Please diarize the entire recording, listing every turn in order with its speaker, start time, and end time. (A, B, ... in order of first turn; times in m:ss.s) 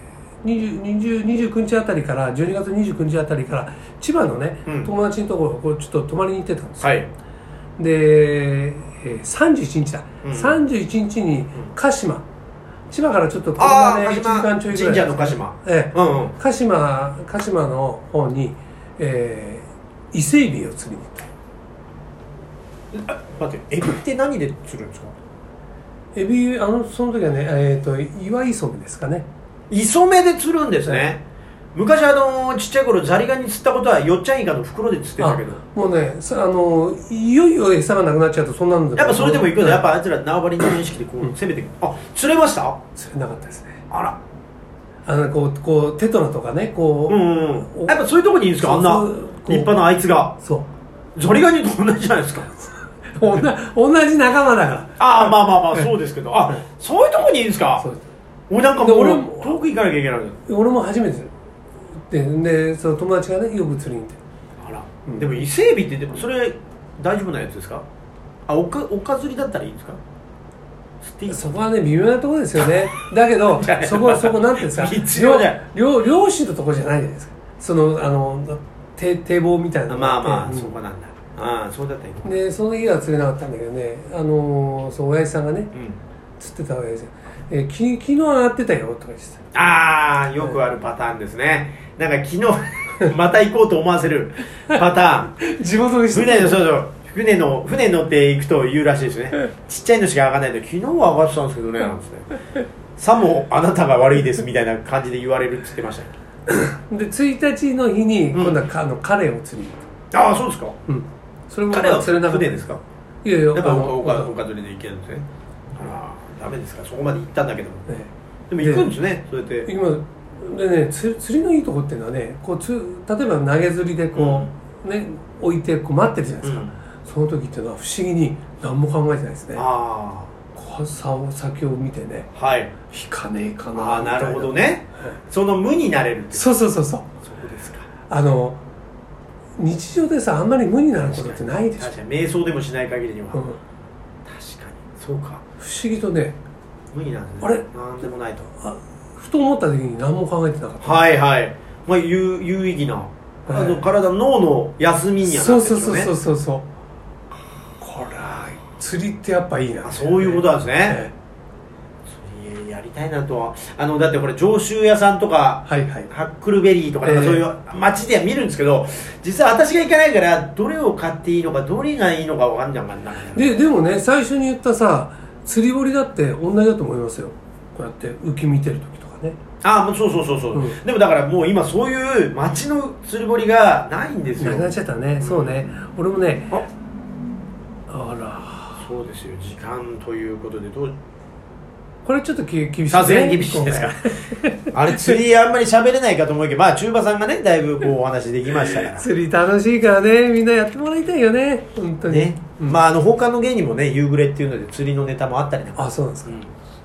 0:00.4-0:06.9 A
0:04.7-0:04.9 B
0:06.8-0:07.1 B
0:07.8-0:12.2 A
0:10.2-0:10.6 B
0:12.9-0:21.3 A
0:13.6-0:16.3 B
0:22.9-0:25.1 B
0:26.1-0:29.3 A
0:29.7-0:31.2 B
0:31.7-0:35.6 B
0:35.2-0:39.8 A
0:39.0-0:42.8 B
0:43.0-0:43.8 A
0:43.9-0:44.2 B
0:45.0-0:48.0 A
0:47.1-0:50.4 B
0:48.6-0:49.8 A
0:50.4-0:50.7 A
0:51.1-0:52.5 B
0:52.6-0:55.9 A
0:55.0-0:57.8 B
0:58.5-1:00.4 B
0:58.8-0:59.6 A
1:00.5-1:01.3 A
1:02.1-1:04.2 A
1:04.6-1:07.8 B
1:05.1-1:05.3 A
1:08.5-1:10.0 B
1:11.0-1:11.6 B
1:11.3-1:20.7 A
1:13.5-1:15.6 B
1:19.9-1:22.3 B
1:22.2-1:25.7 A
1:26.4-1:29.4 A
1:29.5-1:35.4 B
1:35.4-1:36.7 A
1:36.1-1:42.3 B
1:43.0-1:46.1 B
1:46.5-1:49.8 A
1:48.3-1:48.6 B
1:50.1-1:50.8 B
1:50.9-1:52.7 A
1:51.7-1:52.8 B
1:53.2-1:54.3 A
1:53.5-1:57.9 B
1:57.9-1:58.9 A
1:58.5-1:59.7 B
1:59.6-2:09.6 A
2:04.1-2:04.5 B
2:06.4-2:06.7 B
2:09.5-2:10.3 B
2:10.5-2:12.3 A
2:12.4-2:12.7 B
2:12.9-2:14.6 A
2:13.7-2:16.6 B
2:16.3-2:17.1 A
2:17.2-2:17.9 B
2:18.1-2:18.6 A
2:19.6-2:21.9 A
2:21.0-2:23.4 B
2:23.3-2:23.6 A
2:24.2-2:25.4 B
2:25.6-2:26.4 A
2:26.9-2:28.5 B
2:28.6-2:31.0 A
2:30.8-2:36.1 B
2:33.5-2:33.8 A
2:35.2-2:36.6 A
2:37.8-2:41.1 A
2:39.8-2:41.0 B
2:42.1-2:53.6 B
2:45.7-2:46.1 A
2:47.0-2:47.4 A
2:53.3-2:59.4 A
2:59.6-3:05.7 B
3:04.4-3:06.6 A
3:07.9-3:08.8 A
3:08.8-3:10.9 B
3:12.0-3:15.2 A
3:12.9-3:14.1 B
3:14.7-3:19.1 B
3:18.7-3:22.8 A
3:22.1-3:26.5 B
3:25.7-3:26.4 A